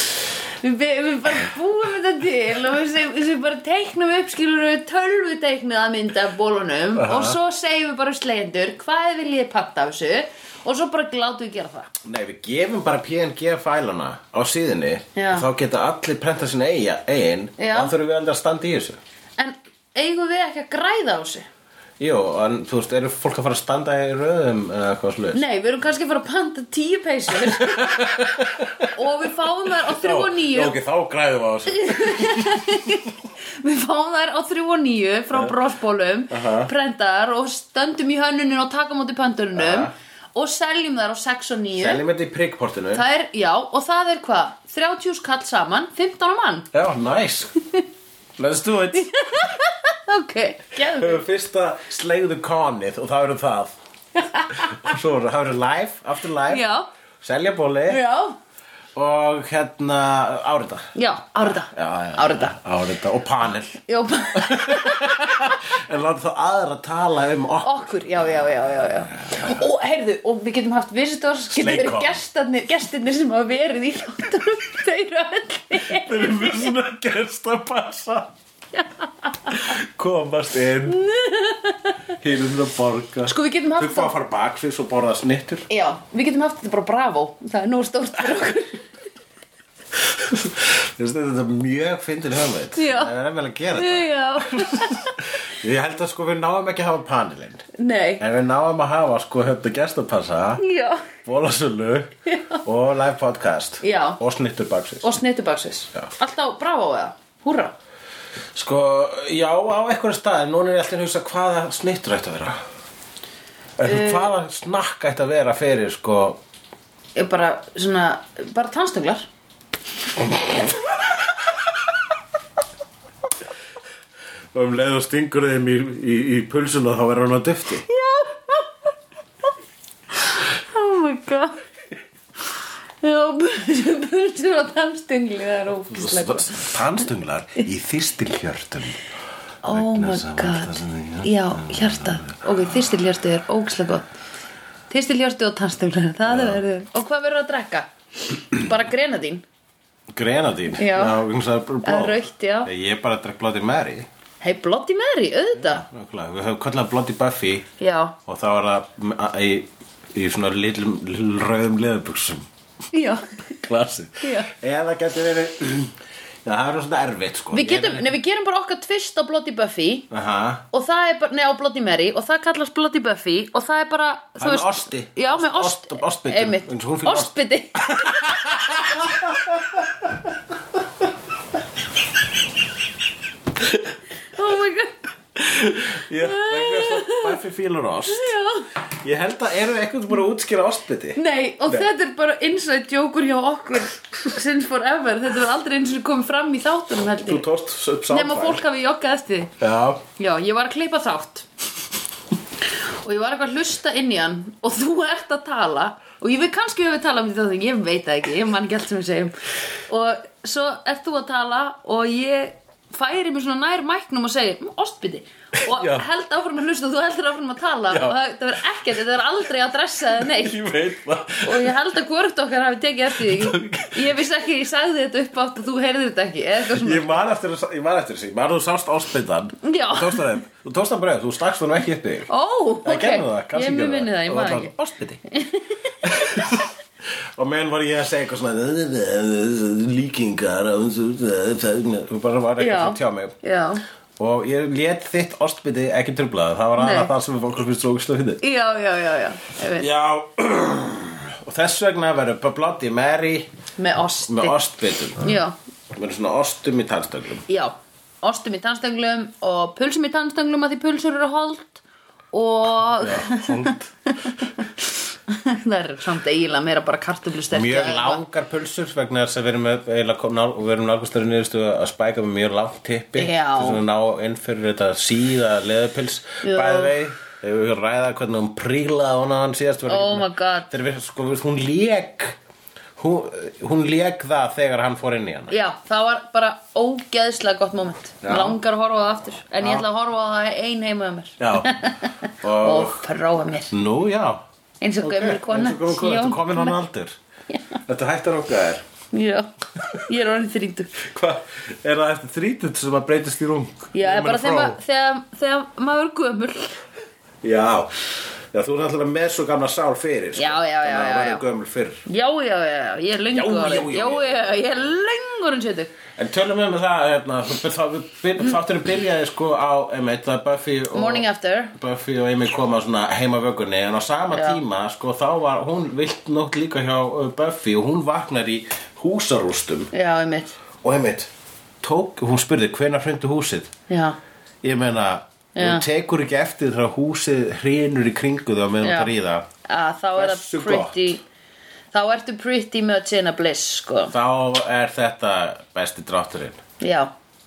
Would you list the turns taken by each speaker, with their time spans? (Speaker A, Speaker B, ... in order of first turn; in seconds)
Speaker A: 0.6-11.9, 15.1-15.5, 17.6-17.9, 19.4-21.5, 25.3-28.3, 28.9-30.7, 31.7-42.0, 42.9-46.7, 48.9-51.2, 54.2-54.8, 56.5-56.9, 57.9-58.4, 60.9-62.5, 63.9-65.4, 67.6-76.7, 78.7-79.7, 80.9-82.0, 83.2-84.1, 85.7-88.8, 92.8-93.1, 93.7-95.1, 97.7-98.2, 100.6-101.1, 102.3-102.6, 103.8-104.2, 105.0-107.7, 113.8-114.3, 117.2-119.3, 127.9-128.7, 130.3-131.6, 133.0-136.7, 139.6-144.1, 144.9-149.4, 150.8-151.2, 151.8-152.7, 154.4-155.8, 157.8-158.2, 162.9-163.6, 164.2-164.5, 167.5-170.1, 170.7-178.4, 184.3-185.0, 186.2-187.4, 188.1-188.7, 191.2-197.4, 198.1-199.5, 200.2-201.4, 203.0-209.3, 209.9-220.6, 221.4-227.2, 229.6-230.3, 232.3-234.7, 235.3-235.8, 242.6-243.8, 246.8-247.1, 248.4-249.9, 253.8-254.6, 255.2-255.5, 257.5-268.2, 273.2-273.8, 276.4-276.9, 279.9-280.7, 285.5-293.7, 294.8-296.8, 297.5-297.8, 299.1-301.0, 303.9-306.8, 310.4-311.4, 312.1-315.9, 320.9-321.7, 324.3-324.6, 329.9-330.5, 333.9-334.2, 335.6-335.9, 338.8-339.1, 339.6-341.2, 341.9-344.1, 346.8-347.1
Speaker B: 7.0-7.4, 12.0-19.0, 22.0-25.4, 27.4-28.9, 29.8-32.9, 36.3-36.7, 39.5-39.9, 41.8-43.0, 46.7-47.5, 48.4-49.1, 50.8-53.8, 54.5-56.6, 57.2-58.0, 58.9-60.9, 61.4-63.8, 64.3-67.9, 69.3-69.5, 71.5-72.2, 75.8-78.3, 79.5-81.0, 82.2-85.7, 90.0-97.6, 98.2-100.6, 101.2-105.1, 108.5-112.6, 113.8-116.4, 124.5-127.8, 135.9-139.0, 139.7-142.4, 146.3-146.6, 150.1-154.1, 155.6-157.7, 158.2-162.5, 163.6-168.1, 170.1-170.6, 174.4-177.3, 177.9-180.2, 185.3-188.3, 189.0-191.9, 197.2-198.6, 199.6-200.0, 215.6-216.0, 217.9-218.2, 220.2-221.8, 223.1-224.2, 226.7-232.3, 232.8-235.2, 236.0-236.7, 237.3-243.3, 244.2-248.4, 249.8-253.5, 254.3-255.3, 255.9-257.4, 263.0-263.9, 267.5-282.4, 283.0-285.5, 288.2-288.6, 289.6-289.9, 291.4-291.8, 292.3-293.0, 293.7-294.4, 295.0-297.1, 297.9-298.8, 301.0-304.8, 307.4-312.0, 313.3-314.9, 316.1-329.9, 330.8-331.3, 331.8-333.7, 334.6-339.5, 340.1-341.1, 344.1-346.6